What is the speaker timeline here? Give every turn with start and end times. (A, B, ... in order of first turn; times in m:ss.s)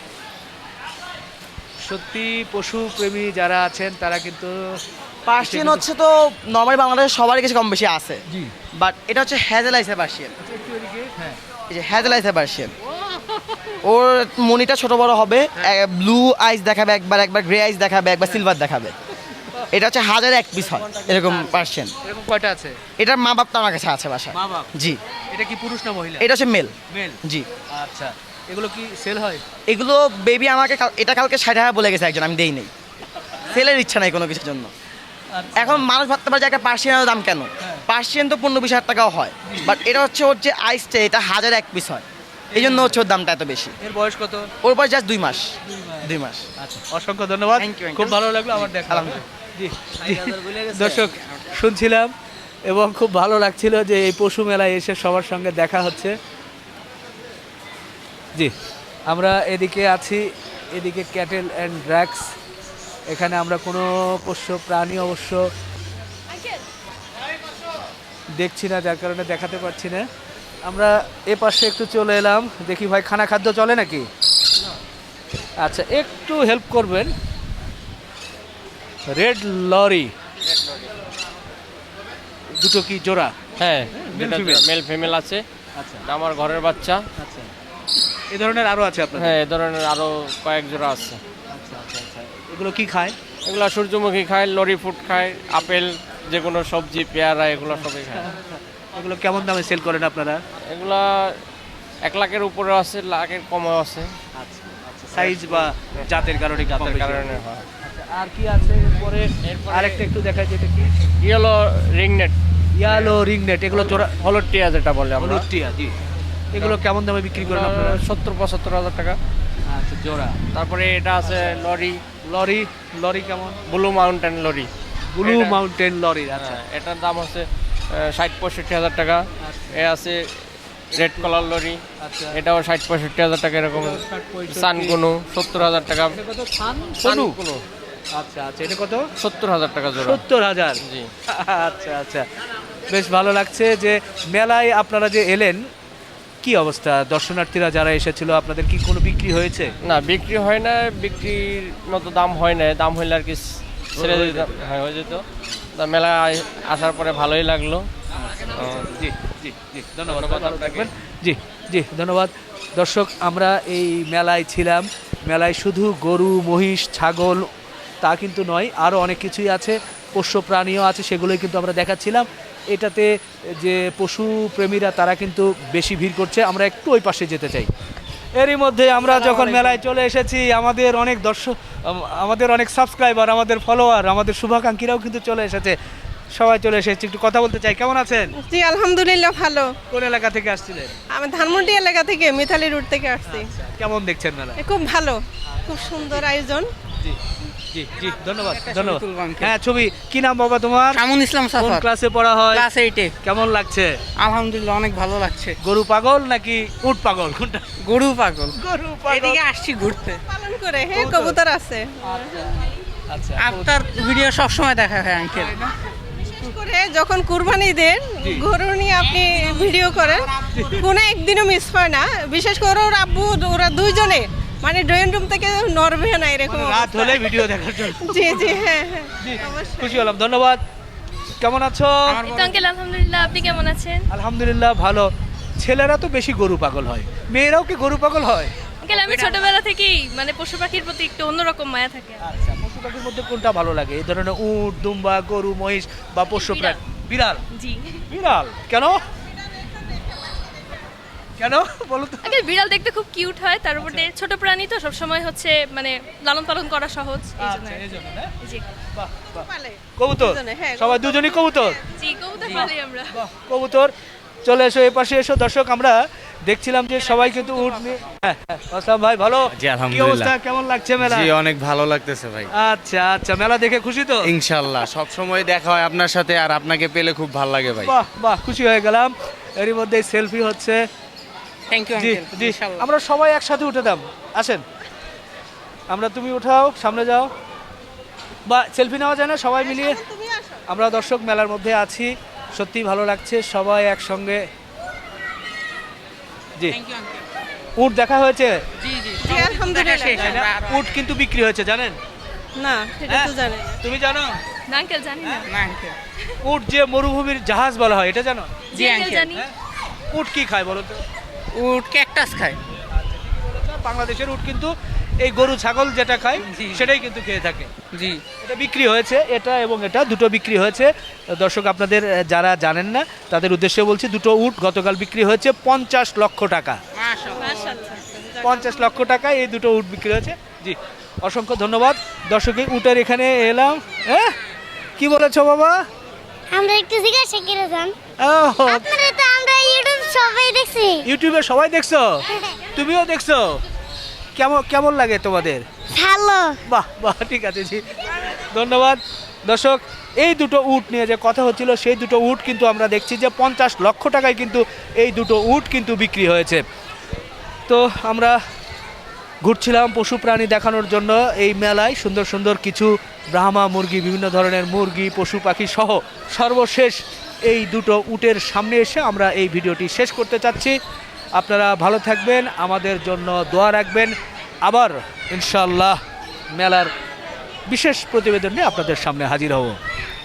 0:01.8-0:04.8 A
0:05.3-0:08.2 B
0:05.4-0:05.9 A
0:08.3-0:08.5 A
0:08.8-0:10.3 B
0:10.4-0:11.4 A
0:11.7-0:12.7 B
0:13.8-0:19.0 B
0:19.7-0:21.9 B
0:20.8-0:22.8 A
0:23.0-0:25.0 B
0:24.3-0:24.7 A
0:25.3-0:26.3 A
0:26.2-0:26.7 B
0:26.9-0:27.2 A
0:27.7-0:29.4 A
0:29.7-0:32.7 B
0:33.5-0:34.7 B
0:35.3-0:35.8 A
0:35.6-0:43.8 B
0:39.4-0:39.8 A
0:42.5-0:43.0 A
0:43.8-0:44.5 A
0:44.6-0:45.5 B
0:45.7-0:52.1 A
0:46.0-0:46.5 B
0:47.6-0:49.2 B
0:50.0-0:51.1 B
0:52.7-0:56.1 A
0:59.1-1:02.3 A
1:03.1-1:05.4 A
1:08.4-1:10.1 A
1:10.6-1:14.1 A
1:15.6-1:17.1 A
1:19.1-1:20.1 A
1:20.4-1:20.9 C
1:22.6-1:23.3 A
1:23.6-1:25.4 C
1:23.9-1:24.7 A
1:25.8-1:26.1 A
1:26.0-1:27.0 C
1:27.2-1:27.5 A
1:28.3-1:29.4 A
1:29.2-1:31.2 C
1:31.5-1:33.2 A
1:33.4-1:38.3 C
1:37.8-1:40.4 A
1:40.6-1:41.4 C
1:42.1-1:44.2 C
1:44.4-1:47.3 A
1:45.2-1:46.1 C
1:46.7-1:47.7 C
1:47.8-1:51.1 A
1:49.4-1:50.0 C
1:51.2-1:52.4 C
1:52.8-1:54.2 A
1:52.9-1:53.2 C
1:53.7-1:55.5 C
1:55.2-1:56.0 A
1:56.5-1:58.0 A
1:57.3-1:59.2 C
1:59.6-2:00.4 A
2:00.5-2:02.0 C
2:01.3-2:01.5 A
2:02.2-2:03.6 A
2:03.7-2:04.7 C
2:05.1-2:06.6 A
2:05.2-2:05.6 C
2:06.4-2:10.2 C
2:09.4-2:09.9 A
2:10.9-2:16.2 C
2:12.0-2:12.4 A
2:13.7-2:15.0 A
2:15.6-2:17.4 A
2:17.0-2:17.6 C
2:18.2-2:19.0 A
2:19.2-2:20.2 C
2:20.0-2:22.3 A
2:20.8-2:21.1 C
2:22.9-2:25.6 A
2:26.4-2:29.7 A
2:29.8-2:37.9 C
2:34.0-2:34.5 A
2:38.1-2:47.5 A
2:38.6-2:39.0 C
2:40.1-2:40.9 C
2:48.0-2:57.7 A
2:58.4-3:05.8 A
2:59.0-2:59.8 D
3:06.4-3:08.4 A
3:08.4-3:09.8 E
3:09.9-3:11.0 A
3:11.1-3:13.5 E
3:13.3-3:14.6 A
3:14.6-3:16.7 E
3:17.7-3:21.0 A
3:18.4-3:19.5 D
3:20.9-3:21.9 D
3:21.6-3:22.7 A
3:22.5-3:23.1 D
3:23.2-3:23.9 A
3:24.2-3:25.6 D
3:25.6-3:27.6 A
3:27.8-3:28.6 D
3:28.6-3:29.4 A
3:29.1-3:30.2 D
3:30.3-3:32.5 E
3:30.9-3:31.4 A
3:33.1-3:33.7 A
3:33.4-3:35.6 D
3:35.4-3:35.8 A
3:36.1-3:50.1 E
3:38.2-3:38.5 A
3:39.0-3:40.7 D
3:40.4-3:40.9 A
3:46.5-3:50.6 A
3:51.4-3:52.2 A
3:52.1-3:53.6 D
3:52.2-3:54.0 F
3:54.1-3:58.5 A
3:58.8-4:02.2 F
3:58.9-3:59.5 D
4:02.2-4:07.4 A
4:06.4-4:06.8 F
4:07.5-4:08.0 F
4:08.1-4:09.0 A
4:11.4-4:12.3 A
4:12.2-4:18.6 F
4:13.8-4:14.1 A
4:17.4-4:18.3 A
4:19.0-4:21.8 A
4:19.3-4:21.9 E
4:22.0-4:23.1 F
4:22.4-4:23.9 A
4:24.5-4:31.3 A
4:27.1-4:28.0 D
4:29.5-4:30.3 G
4:31.0-4:32.5 G
4:32.5-4:34.3 A
4:34.3-4:37.9 G
4:37.8-4:40.8 A
4:41.7-4:42.8 D
4:41.9-4:44.6 A
4:45.9-4:47.3 A
4:48.5-4:50.0 A
4:49.6-4:50.6 E
4:50.7-4:54.5 A
4:56.7-4:57.2 D
4:57.8-4:58.6 A
4:58.8-5:00.9 D
4:59.2-5:00.3 E
5:00.1-5:02.0 A
5:02.6-5:03.8 E
5:03.1-5:04.4 A
5:04.7-5:05.6 F
5:05.5-5:06.0 D
5:06.4-5:08.5 A
5:08.7-5:09.5 F
5:08.7-5:09.4 D
5:10.1-5:11.0 A
5:11.5-5:12.6 D
5:13.0-5:17.7 A
5:16.4-5:16.9 D
5:17.9-5:18.2 D
5:18.4-5:26.8 A
5:27.0-5:27.8 D
5:27.4-5:28.8 E
5:28.4-5:34.3 A
5:35.0-5:35.8 A
5:36.5-5:38.0 H
5:38.2-5:38.9 A
5:38.6-5:41.1 H
5:41.0-5:42.2 A
5:42.7-5:43.6 A
5:44.4-5:45.6 A
5:45.9-5:46.6 H
5:46.7-5:56.6 A
5:57.7-5:58.4 A
5:59.4-6:10.8 A
6:11.4-6:14.1 A
6:14.6-6:16.0 A
6:16.6-6:16.9 A
6:17.7-6:19.8 A